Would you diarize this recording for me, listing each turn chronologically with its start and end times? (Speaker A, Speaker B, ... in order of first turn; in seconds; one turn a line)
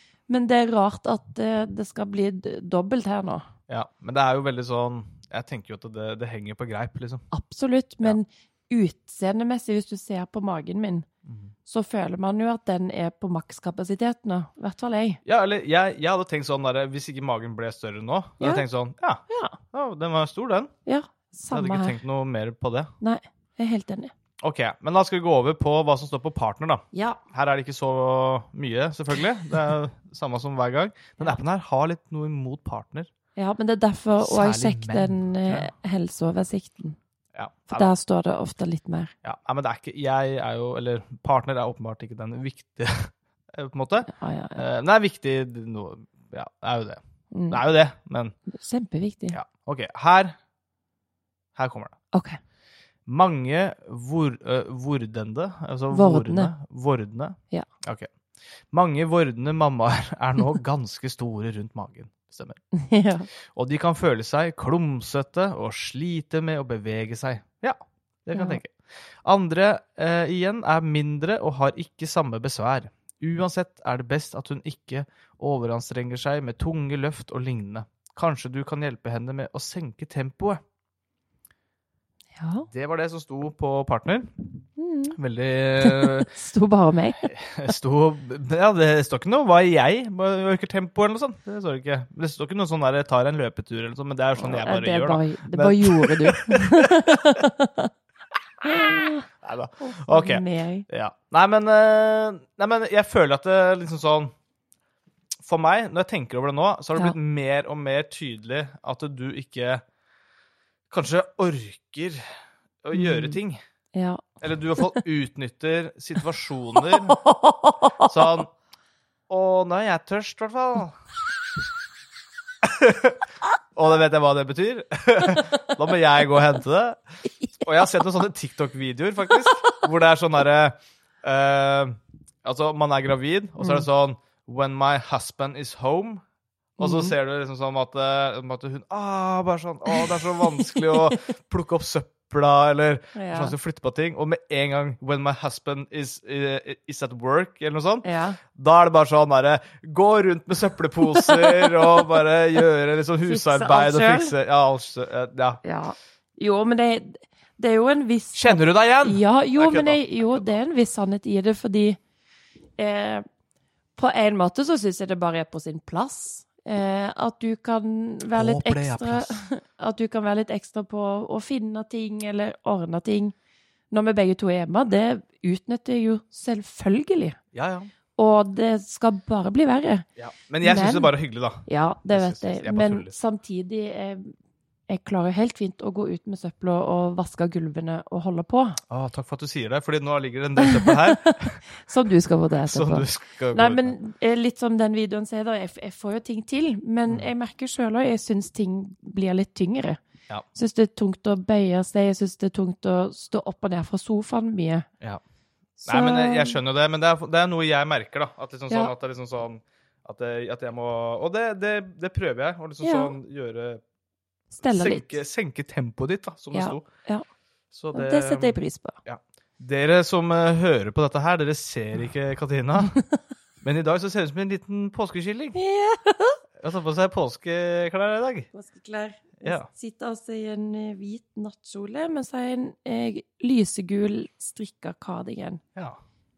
Speaker A: 0.3-3.5
Speaker B: 3.7-7.2
Speaker A: 7.3-11.1
Speaker B: 11.2-11.5
Speaker A: 11.7-15.2
Speaker B: 15.2-20.7
Speaker A: 19.3-19.6
Speaker A: 20.9-22.0
Speaker B: 21.5-22.9
Speaker A: 23.0-24.1
Speaker B: 24.4-33.1
Speaker A: 26.9-27.2
Speaker A: 33.4-37.0
Speaker B: 34.2-35.7
Speaker B: 37.3-37.9
Speaker A: 37.7-39.1
Speaker B: 39.2-48.3
Speaker A: 44.1-44.6
Speaker A: 47.3-47.6
Speaker A: 48.5-49.4
Speaker B: 49.3-50.3
Speaker B: 51.5-51.9
Speaker A: 52.1-52.4
Speaker B: 53.0-58.1
Speaker A: 55.9-56.5
Speaker B: 58.7-62.6
Speaker A: 62.7-63.3
Speaker B: 63.5-68.7
Speaker A: 68.3-68.6
Speaker B: 69.2-80.6
Speaker A: 82.3-82.7
Speaker B: 82.7-84.4
Speaker A: 84.8-85.2
Speaker B: 85.2-86.3
Speaker A: 85.8-87.3
Speaker B: 87.2-97.2
Speaker A: 94.4-97.9
Speaker A: 98.6-99.3
Speaker B: 98.7-104.3
Speaker A: 99.8-100.9
Speaker B: 105.4-109.8
Speaker B: 110.9-112.2
Speaker B: 112.8-113.6
Speaker A: 112.9-113.4
Speaker A: 113.9-114.2
Speaker B: 114.4-117.2
Speaker A: 117.0-118.1
Speaker B: 118.0-118.5
Speaker B: 119.3-121.0
Speaker B: 122.6-123.2
Speaker B: 123.7-127.0
Speaker B: 127.6-136.2
Speaker A: 129.4-129.8
Speaker B: 136.8-155.6
Speaker A: 136.8-137.1
Speaker A: 139.9-141.1
Speaker A: 143.1-143.5
Speaker A: 148.0-148.4
Speaker A: 151.1-152.1
Speaker A: 153.2-154.3
Speaker A: 155.6-162.0
Speaker B: 158.3-160.5
Speaker A: 162.8-163.2
Speaker A: 164.0-173.3
Speaker B: 168.3-169.4
Speaker A: 173.9-177.4
Speaker B: 177.5-177.9
Speaker A: 178.2-180.1
Speaker B: 180.2-183.1
Speaker A: 180.6-181.1
Speaker A: 181.7-184.3
Speaker A: 184.9-188.8
Speaker B: 188.9-191.6
Speaker A: 190.6-200.0
Speaker B: 192.6-193.9
Speaker A: 200.5-204.9
Speaker A: 205.8-206.6
Speaker B: 205.8-213.8
Speaker A: 212.8-213.2
Speaker A: 214.5-215.2
Speaker B: 214.6-216.8
Speaker A: 216.5-217.2
Speaker B: 217.7-223.0
Speaker A: 217.9-219.0
Speaker B: 223.6-225.6
Speaker A: 225.5-226.4
Speaker B: 226.6-228.5
Speaker A: 228.5-235.6
Speaker B: 229.4-229.7